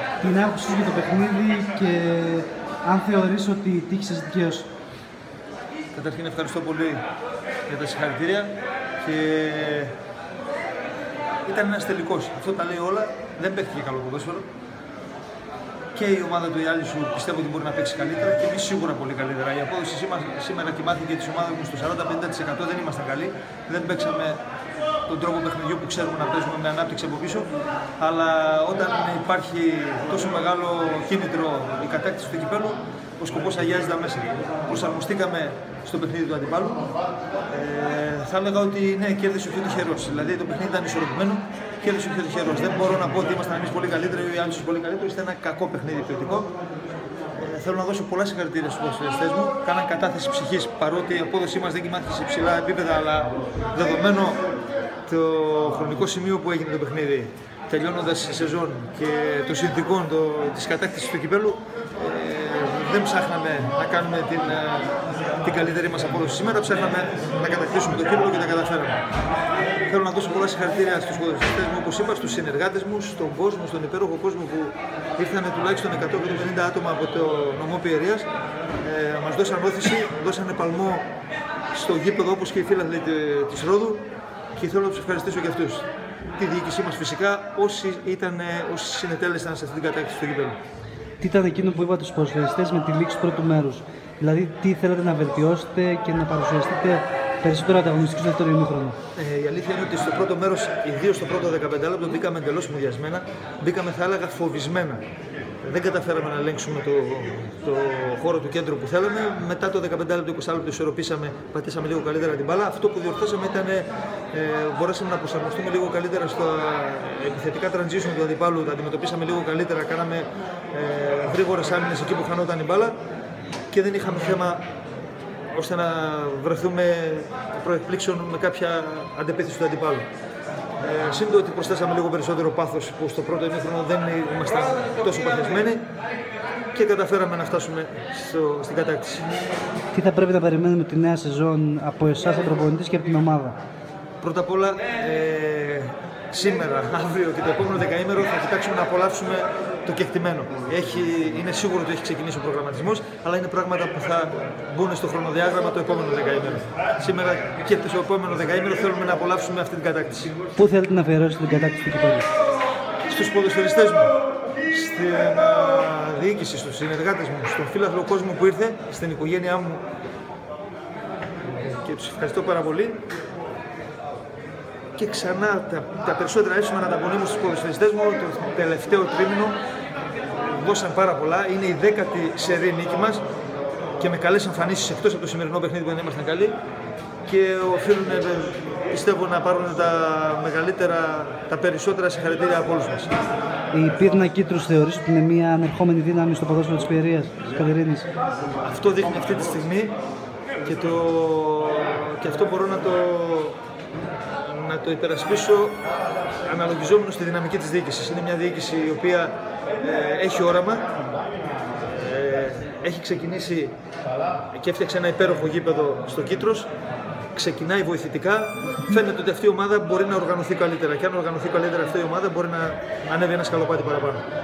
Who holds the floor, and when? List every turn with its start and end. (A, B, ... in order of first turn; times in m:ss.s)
0:00.2-0:04.7 A
0:05.9-0:07.0 B
0:07.7-0:10.0 B
0:11.5-0:14.5 B
0:15.9-0:24.4 B
0:25.1-0:36.8 B
0:37.5-0:46.5 B
0:47.4-0:54.4 B
0:55.1-1:09.0 B
1:09.8-1:18.3 B
1:18.8-1:21.0 B
1:21.7-1:24.0 B
1:24.6-1:30.6 B
1:31.2-1:39.0 A
1:39.2-1:45.0 B
1:45.6-2:03.0 B
2:03.7-2:04.6 B
2:05.5-2:10.0 B
2:10.8-2:15.8 B
2:16.7-2:19.3 B
2:19.9-2:23.6 A
2:24.2-2:40.3 B
2:40.6-2:42.3 A
2:43.1-2:44.1 B
2:44.7-2:49.8 B
2:51.5-2:53.0 B
2:55.0-2:59.6 B
3:00.4-3:03.2 B
3:04.0-3:06.5 B
3:07.2-3:13.1 B
3:13.7-3:18.1 A
3:18.6-3:19.9 B
3:20.6-3:23.6 B
3:24.4-3:25.8 B
3:26.4-3:30.9 B
3:31.8-3:33.8 B
3:34.5-3:36.7 B
3:37.3-3:44.2 B